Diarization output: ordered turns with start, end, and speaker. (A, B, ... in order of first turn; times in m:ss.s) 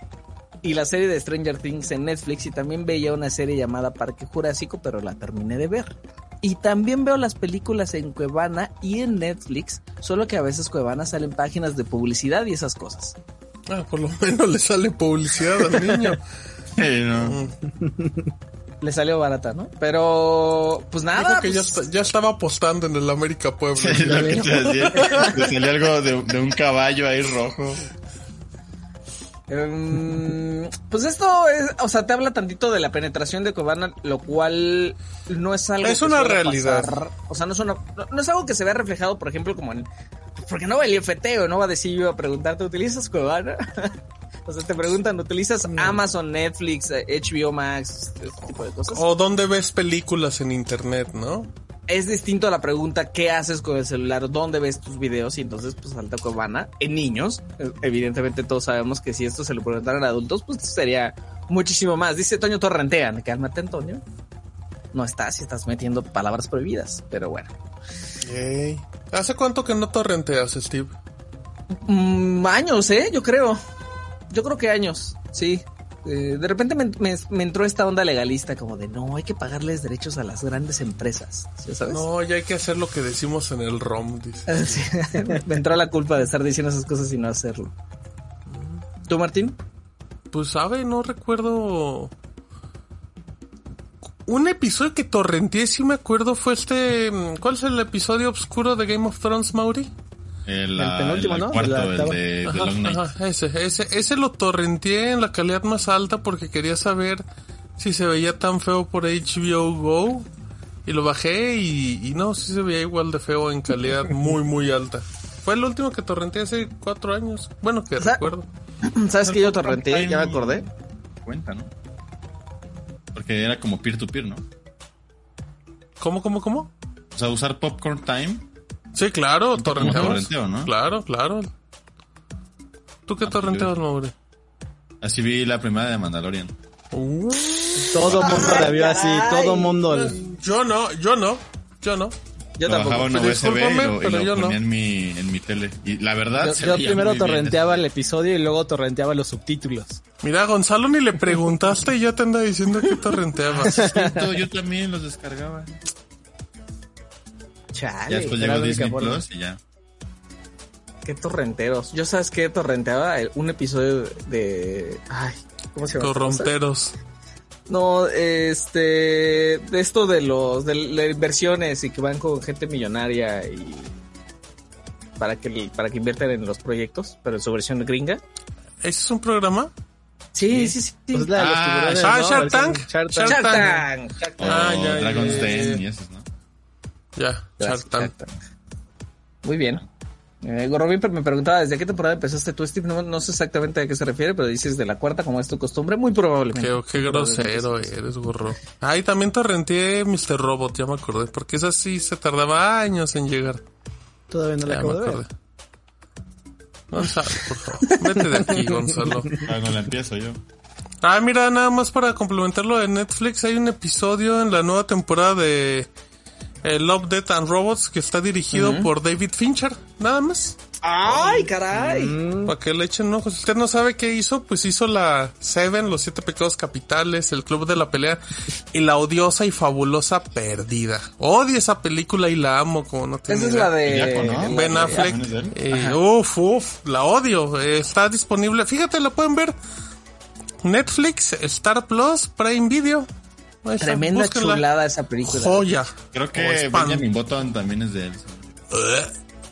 0:00.6-0:13.2 A
0:13.7-0:16.2 B
0:16.7-0:17.4 C
0:17.2-0:17.5 B
0:17.8-0:18.1 D
0:18.8-0:21.9 A
0:21.1-0:25.5 B
0:23.7-0:27.8 C
0:24.2-0:24.4 A
0:29.5-0:43.9 A
0:35.8-0:37.0 B
0:44.4-0:49.0 A
0:45.7-0:46.0 B
0:48.9-0:51.5 B
0:51.9-1:04.0 A
1:04.9-1:07.5 A
1:08.2-1:10.9 B
1:11.8-1:13.6 A
1:14.3-1:22.0 A
1:21.9-1:24.7 B
1:24.5-1:27.7 A
1:28.5-1:28.8 B
1:29.1-1:29.6 A
1:30.3-1:32.1 B
1:34.2-1:39.9 B
1:40.4-1:43.1 C
1:40.8-1:42.2 D
1:42.5-1:47.2 B
1:47.8-1:50.3 B
1:50.8-1:58.5 B
1:58.0-1:58.2 A
1:58.8-2:00.6 A
1:59.2-2:00.7 C
2:01.2-2:01.7 C
2:03.1-2:04.4 C
2:06.0-2:06.7 B
2:07.1-2:08.4 C
2:08.9-2:11.5 B
2:09.6-2:10.7 C
2:13.1-2:14.1 B
2:13.2-2:13.8 C
2:15.0-2:16.6 C
2:16.9-2:18.0 B
2:17.8-2:20.2 D
2:18.0-2:18.4 C
2:18.0-2:19.8 A
2:19.8-2:22.2 B
2:22.6-2:23.1 A
2:22.6-2:27.8 C
2:23.1-2:24.6 B
2:26.4-2:30.0 D
2:26.5-2:26.9 A
2:30.2-2:33.9 B
2:33.6-2:35.8 C
2:37.7-2:38.4 A
2:38.1-2:39.6 C
2:38.4-2:39.2 D
2:41.0-2:46.5 A
2:46.0-2:46.9 B
2:47.7-2:53.9 A
2:55.2-2:58.2 A
2:58.8-2:59.7 B
3:00.3-3:01.3 A
3:00.5-3:03.8 D
3:01.3-3:02.3 C
3:02.0-3:03.8 B
3:03.2-3:04.7 A
3:04.4-3:06.3 C
3:04.4-3:05.8 B
3:07.2-3:08.1 B
3:07.6-3:08.3 A
3:09.4-3:09.8 A
3:10.4-3:17.9 A
3:16.5-3:23.6 B
3:24.3-3:25.2 D
3:24.6-3:25.3 B
3:26.9-3:29.3 B
3:29.4-3:30.4 C
3:31.0-3:35.9 B
3:36.6-3:40.6 B
3:38.5-3:38.9 A
3:40.8-3:42.2 A
3:41.2-3:42.5 D
3:42.4-3:59.6 B
3:53.3-3:56.0 A
3:53.8-3:55.6 C
4:00.6-4:03.1 B
4:03.6-4:04.6 B
4:03.8-4:05.7 A
4:05.2-4:07.1 B
4:06.1-4:08.5 C
4:08.7-4:09.1 B